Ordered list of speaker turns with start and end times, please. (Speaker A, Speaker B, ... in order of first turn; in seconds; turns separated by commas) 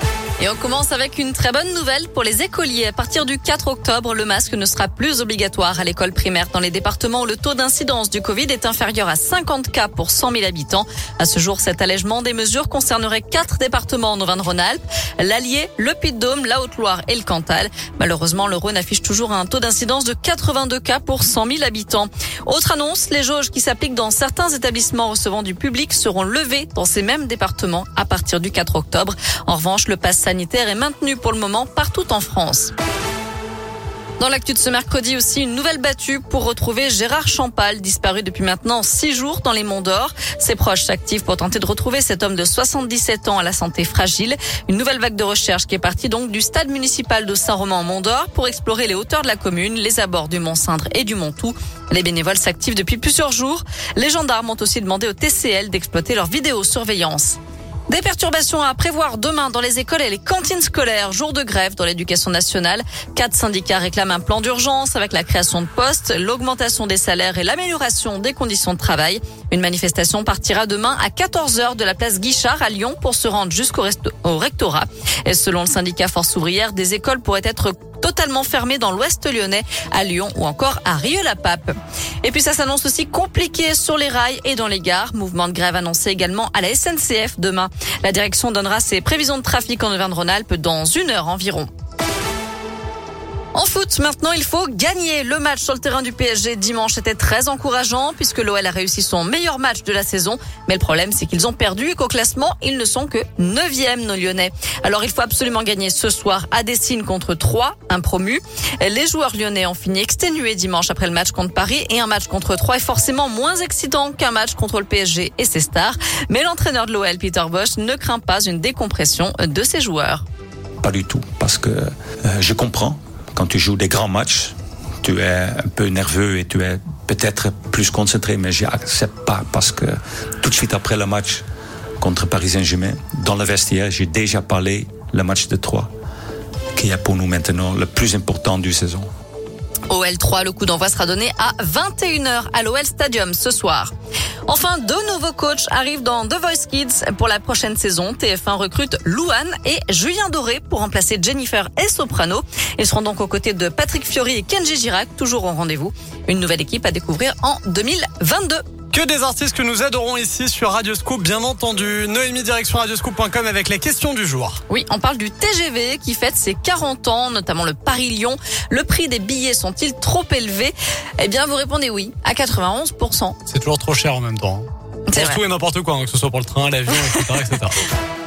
Speaker A: 0.4-32.7, Speaker A: 34.2-57.4, Speaker A: 57.9-91.7, Speaker A: 93.5-120.2, Speaker B: 120.8-131.4, Speaker B: 132.0-135.9, Speaker B: 136.8-139.1, Speaker A: 139.9-143.9, Speaker A: 144.4-158.6, Speaker C: 158.9-164.6, Speaker A: 164.7-173.4, Speaker C: 173.5-177.8, Speaker A: 175.1-175.4